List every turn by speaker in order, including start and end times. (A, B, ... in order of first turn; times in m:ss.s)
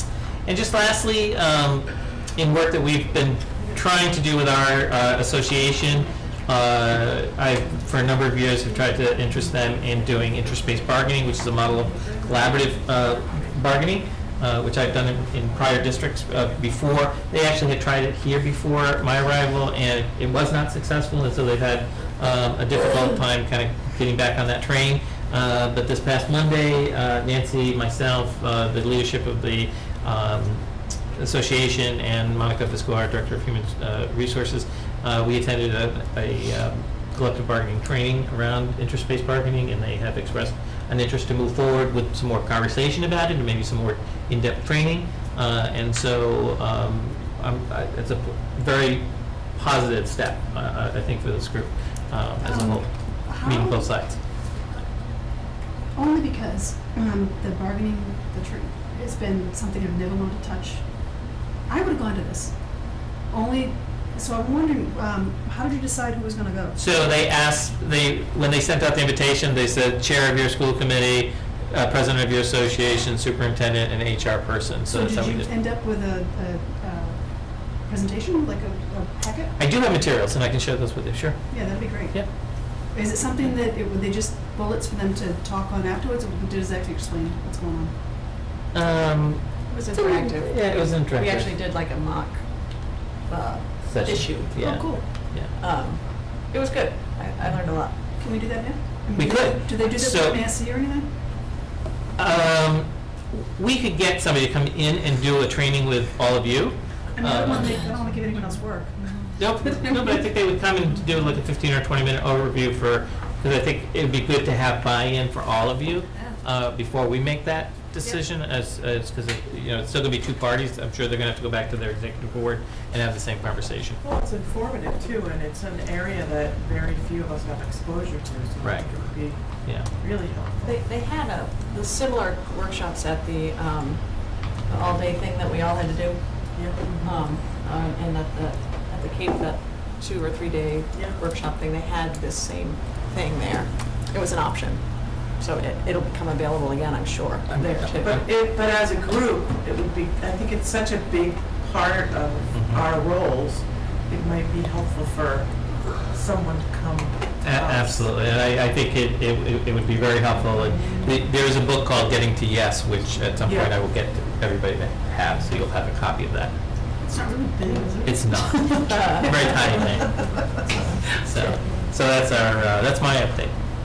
0:00.4-0:54.2 A
0:12.0-0:13.2 B
0:52.4-0:54.2 C
0:55.9-1:06.8 C
1:06.8-1:15.5 A
1:14.8-1:19.6 C
1:19.6-1:22.3 A
1:21.5-1:27.9 C
1:28.7-1:31.5 A
1:29.7-1:38.0 D
1:33.8-1:35.5 A
1:34.6-1:35.0 C
1:38.2-1:41.2 C
1:39.1-1:40.4 A
1:42.2-1:47.8 A
1:47.1-1:49.0 C
1:49.0-1:49.3 D
1:49.4-2:04.0 A
1:49.6-1:50.1 C
2:04.0-2:10.8 B
2:08.6-2:08.9 A
2:09.6-2:09.9 A
2:10.6-2:28.2 D
2:16.5-2:17.0 B
2:16.8-2:17.1 C
2:20.9-2:21.2 B
2:27.5-2:27.9 A
2:27.9-2:38.2 B
2:32.5-2:32.8 A
2:37.4-2:46.6 A
2:43.4-2:43.8 B
2:47.0-2:50.2 C
2:48.0-2:53.5 A
2:48.9-2:49.5 D